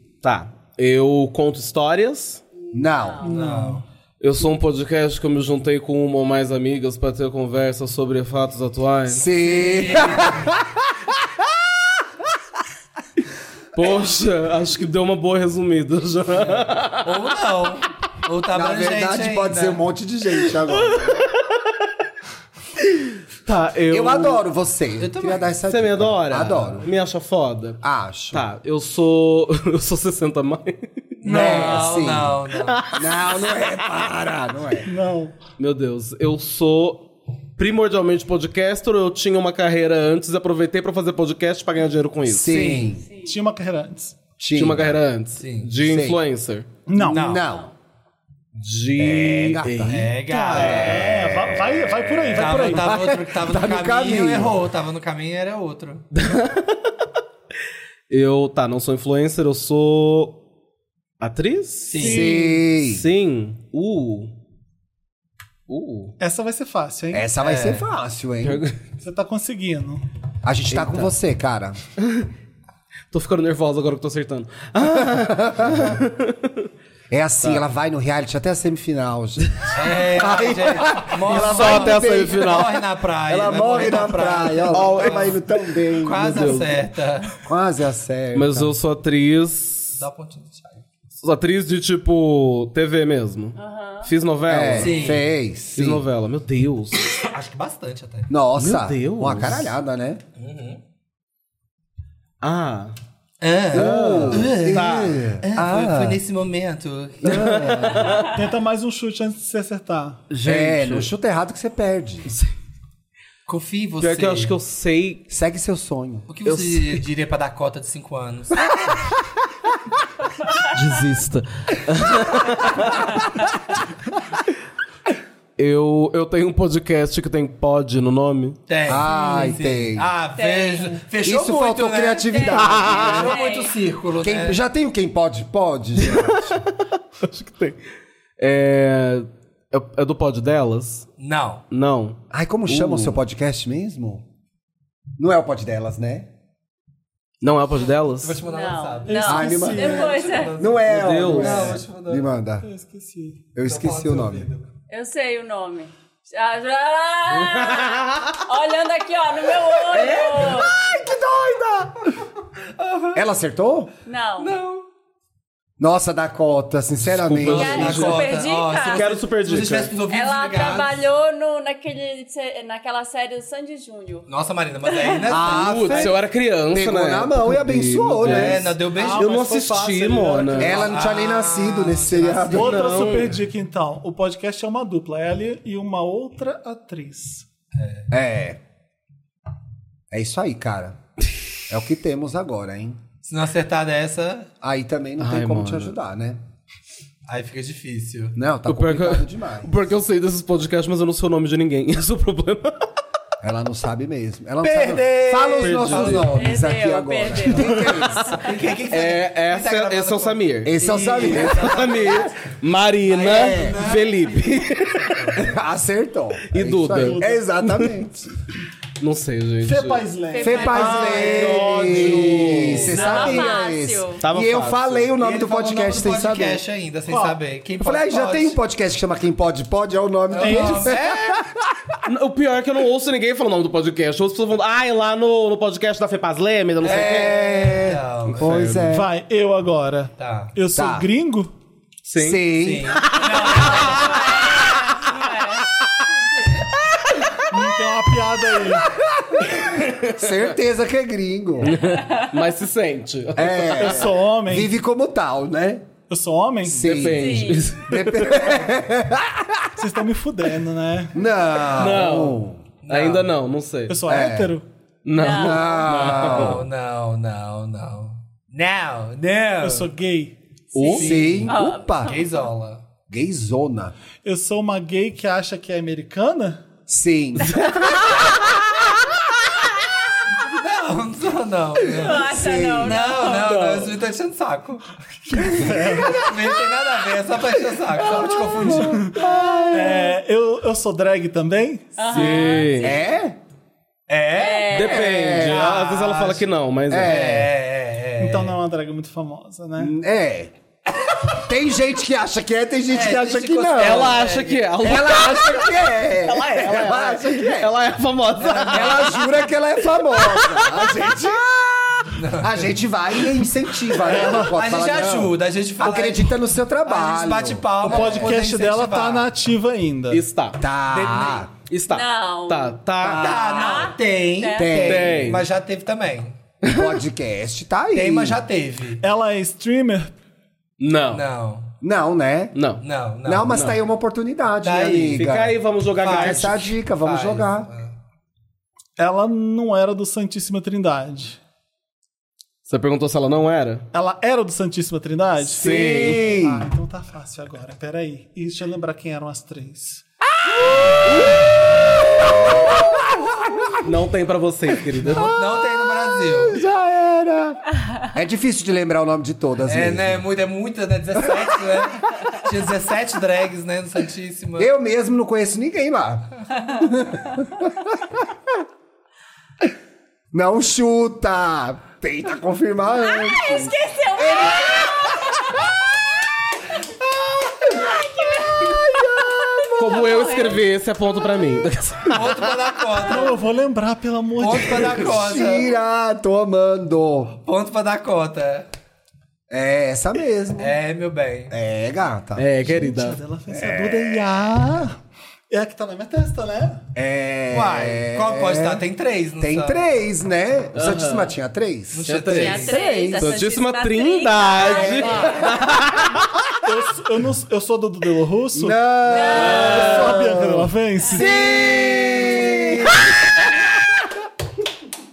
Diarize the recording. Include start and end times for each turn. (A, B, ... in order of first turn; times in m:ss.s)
0:00.2-0:02.4 A
0:02.6-0:03.4 B
0:02.7-0:03.2 C
0:03.2-0:03.8 D
0:03.2-0:03.8 E
0:04.2-0:09.3 A
0:09.1-0:11.5 C
0:09.4-0:10.5 E
0:13.8-0:17.1 A
0:17.0-0:19.8 E
0:18.5-0:21.3 C
0:23.5-0:24.4 A
0:23.9-0:26.9 C
0:25.0-0:25.6 E
0:25.7-0:27.8 A
0:27.8-0:28.4 C
0:28.3-0:31.5 A
0:31.2-0:32.9 E
0:31.3-0:32.4 C
0:31.3-0:31.8 D
0:32.7-0:33.7 A
0:32.9-0:34.9 C
0:34.8-0:35.4 D
0:35.6-0:37.1 A
0:37.6-0:42.6 A
0:42.3-0:43.1 C
0:42.4-0:42.9 E
0:43.0-0:43.4 B
0:43.2-0:44.2 D
0:44.4-0:45.0 C
0:44.5-0:46.7 A
0:45.4-0:45.7 E
0:45.8-0:46.2 C
0:46.9-0:47.2 D
0:47.0-0:47.7 C
0:47.0-0:47.5 E
0:47.4-0:47.7 B
0:48.6-0:51.0 A
0:49.0-0:51.7 C
0:49.9-0:51.2 E
0:50.3-0:52.9 D
0:52.2-0:54.6 C
0:52.4-0:56.1 E
0:56.1-0:57.0 A
0:58.1-1:00.4 A
1:01.2-1:02.2 A
1:01.9-1:02.4 E
1:02.0-1:02.6 D
1:02.0-1:03.1 C
1:02.8-1:04.3 A
1:05.7-1:06.2 A
1:06.2-1:07.3 D
1:07.1-1:08.6 C
1:07.4-1:07.9 E
1:08.4-1:08.8 A
1:09.0-1:10.0 D
1:10.4-1:11.8 C
1:10.7-1:11.1 A
1:12.0-1:12.3 A
1:13.1-1:16.7 A
1:15.0-1:16.0 C
1:17.1-1:22.7 C
1:19.7-1:27.3 E
1:21.3-1:22.7 A
1:23.3-1:26.6 C
1:24.7-1:25.4 A
1:26.1-1:26.7 A
1:27.4-1:28.7 C
1:28.3-1:30.0 A
1:30.0-1:30.8 E
1:31.2-1:35.2 A
1:33.6-1:34.1 B
1:34.5-1:36.0 C
1:34.8-1:35.2 E
1:35.7-1:37.1 A
1:37.2-1:38.3 E
1:38.3-1:40.2 C
1:38.6-1:39.7 A
1:40.4-1:40.8 E
1:42.4-1:42.9 A
1:43.4-1:48.1 E
1:43.7-1:45.2 A
1:43.7-1:46.2 C
1:47.2-1:48.2 C
1:47.2-1:48.4 A
1:48.3-1:50.2 D
1:50.3-1:51.1 A
1:50.4-1:52.3 C
1:53.5-1:54.6 E
1:54.0-1:55.2 A
1:55.3-1:56.3 C
1:56.3-1:59.0 E
1:56.4-1:57.0 A
2:00.7-2:03.2 A
2:05.6-2:08.6 A
2:08.7-2:14.6 E
2:08.9-2:10.1 C
2:09.1-2:09.6 B
2:10.4-2:11.0 B
2:11.2-2:13.4 C
2:12.3-2:13.7 B
2:12.6-2:13.3 A
2:14.2-2:16.6 C
2:16.0-2:17.8 A
2:18.4-2:21.1 A
2:21.2-2:21.6 E
2:21.7-2:23.2 A
2:22.3-2:24.2 C
2:25.2-2:26.3 C
2:27.4-2:28.4 A
2:28.2-2:32.3 E
2:28.4-2:30.5 B
2:29.1-2:30.3 D
2:29.2-2:32.7 C
2:30.9-2:31.8 A
2:32.6-2:33.4 D
2:33.5-2:34.5 C
2:33.6-2:34.7 E
2:34.9-2:40.7 B
2:37.3-2:38.4 A
2:39.9-2:42.1 C
2:42.8-2:43.2 E
2:43.1-2:43.9 C
2:44.1-2:44.5 B
2:44.4-2:44.9 E
2:45.8-2:48.1 C
2:47.0-2:48.4 A
2:47.4-2:51.0 E
2:47.4-2:49.1 B
2:48.9-2:49.9 A
2:50.1-2:54.3 B
2:54.3-2:56.2 E
2:54.8-2:55.3 B
2:55.3-2:56.2 C
2:55.4-3:00.8 A
2:56.7-2:58.8 C
2:58.2-2:59.4 E
2:58.9-3:01.0 D
3:00.6-3:02.9 C
3:00.6-3:03.2 E
3:02.5-3:07.4 D
3:02.6-3:03.4 A
3:07.8-3:08.1 E
3:08.1-3:08.6 C
3:10.1-3:11.0 C
3:11.7-3:13.0 C
3:13.2-3:14.5 E
3:14.6-3:16.4 C
3:15.2-3:15.9 A
3:17.3-3:18.4 E
3:18.4-3:19.7 C
3:18.7-3:22.9 A
3:23.4-3:28.4 C
3:24.6-3:26.4 E
3:25.6-3:26.3 A
3:26.3-3:28.2 B
3:27.6-3:35.3 A
3:28.3-3:32.5 E
3:30.6-3:32.2 C
3:33.0-3:35.5 E
3:33.3-3:33.9 C
3:35.4-3:38.3 C
3:36.5-3:38.0 A
3:36.9-3:37.5 D
3:39.0-3:40.1 A
3:39.6-3:42.8 D
3:40.3-3:40.9 B
3:40.4-3:46.6 C
3:40.4-3:43.5 E
3:40.7-3:43.2 A
3:42.9-3:44.2 B
3:44.2-3:45.1 A
3:45.2-3:48.6 E
3:47.1-3:47.4 D
3:47.8-3:52.0 C
3:50.3-3:51.4 E
3:50.4-3:51.0 D
3:52.1-3:57.4 A
3:56.8-3:58.7 E
3:56.8-3:59.1 C
3:58.3-3:58.9 A
3:58.9-4:01.5 D
4:00.2-4:00.5 E
4:00.7-4:01.1 C
4:02.0-4:02.4 A
4:02.2-4:03.0 C
4:02.5-4:04.5 E
4:03.0-4:04.2 A
4:03.9-4:05.6 B
4:07.5-4:08.9 D
4:08.7-4:11.8 C
4:09.8-4:10.2 A
4:11.6-4:14.1 A
4:13.4-4:15.9 C
4:13.7-4:14.7 D
4:16.1-4:17.0 D
4:16.6-4:19.8 C
4:16.8-4:18.4 A
4:17.1-4:17.8 B
4:19.8-4:21.2 D
4:21.1-4:22.6 C
4:21.7-4:24.1 A
4:22.8-4:23.3 E
4:23.9-4:24.7 D
4:24.1-4:24.6 C
4:25.0-4:26.6 A
4:25.1-4:25.9 B
4:25.2-4:26.7 C
4:26.1-4:29.9 E
4:29.6-4:30.4 D
4:30.7-4:31.3 A
4:30.8-4:32.3 B
4:30.8-4:32.8 E
4:30.9-4:32.2 C
4:33.1-4:34.0 C
4:34.2-4:36.7 D
4:36.9-4:37.7 C
4:37.4-4:38.4 A
4:40.4-4:42.3 E
4:41.9-4:43.6 B
4:42.1-4:43.0 C
4:42.8-4:49.2 E
4:43.3-4:43.9 A
4:45.3-4:46.2 D
4:45.4-4:46.3 C
4:48.0-4:50.2 C
4:48.6-4:49.2 D
4:49.7-4:52.0 D
4:52.0-4:53.0 B
4:52.1-4:53.0 A
4:52.8-4:53.4 C
4:54.1-4:54.8 E
4:54.4-4:55.3 B
4:54.7-4:57.2 A
4:54.8-4:56.0 C
4:55.4-4:56.4 E
4:56.9-4:57.5 C
4:57.0-4:58.6 E
4:58.2-4:59.9 D
4:59.8-5:00.5 C
5:01.3-5:04.2 C
5:02.9-5:04.8 E
5:03.8-5:05.7 A
5:04.8-5:07.7 C
5:06.2-5:09.2 A
5:08.4-5:09.2 E
5:08.7-5:18.3 C
5:10.2-5:11.1 A
5:12.2-5:12.8 E
5:14.0-5:14.5 D
5:14.1-5:19.3 E
5:15.8-5:16.1 D
5:17.8-5:20.2 D
5:20.1-5:20.6 A
5:20.6-5:21.5 C
5:20.9-5:21.5 E
5:21.6-5:23.3 A
5:21.9-5:24.8 B
5:23.0-5:26.4 E
5:24.6-5:25.4 C
5:24.8-5:25.5 A
5:26.6-5:28.4 C
5:27.9-5:29.0 E
5:29.0-5:30.1 D
5:30.8-5:31.2 A
5:31.1-5:31.7 E
5:31.8-5:32.6 C
5:32.5-5:32.8 A
5:32.8-5:33.7 E
5:33.2-5:37.7 C
5:33.5-5:33.8 A
5:34.6-5:35.2 E
5:35.1-5:36.7 A
5:36.0-5:37.9 E
5:39.0-5:41.4 D
5:42.6-5:43.9 A
5:43.9-5:50.0 D
5:45.6-5:46.3 A
5:45.6-5:46.7 C
5:50.5-5:51.3 C
5:52.2-5:53.9 C
5:53.8-5:55.3 A
5:55.1-5:56.6 E
5:56.3-6:00.2 C
5:59.7-6:04.7 E
6:04.6-6:08.0 C
6:10.3-6:15.4 C
6:13.0-6:15.6 B
6:17.5-6:20.0 C
6:17.8-6:20.6 B
6:19.8-6:22.4 A
6:22.1-6:23.4 E
6:23.0-6:25.1 D
6:24.4-6:25.7 E
6:24.8-6:27.4 C
6:27.4-6:28.7 E
6:29.5-6:30.8 C
6:30.6-6:31.5 E
6:31.5-6:32.5 C
6:32.4-6:33.2 A
6:32.6-6:35.0 D
6:33.5-6:34.4 C
6:35.5-6:36.8 D
6:37.0-6:38.8 C
6:37.5-6:39.9 E
6:39.4-6:43.4 C
6:40.7-6:41.3 A
6:41.9-6:42.8 E
6:42.0-6:46.5 A
6:42.3-6:45.5 B
6:45.0-6:45.5 C
6:46.6-6:51.3 D
6:48.5-6:53.9 C
6:49.1-6:50.1 B
6:49.3-6:50.1 A
6:51.2-6:51.9 B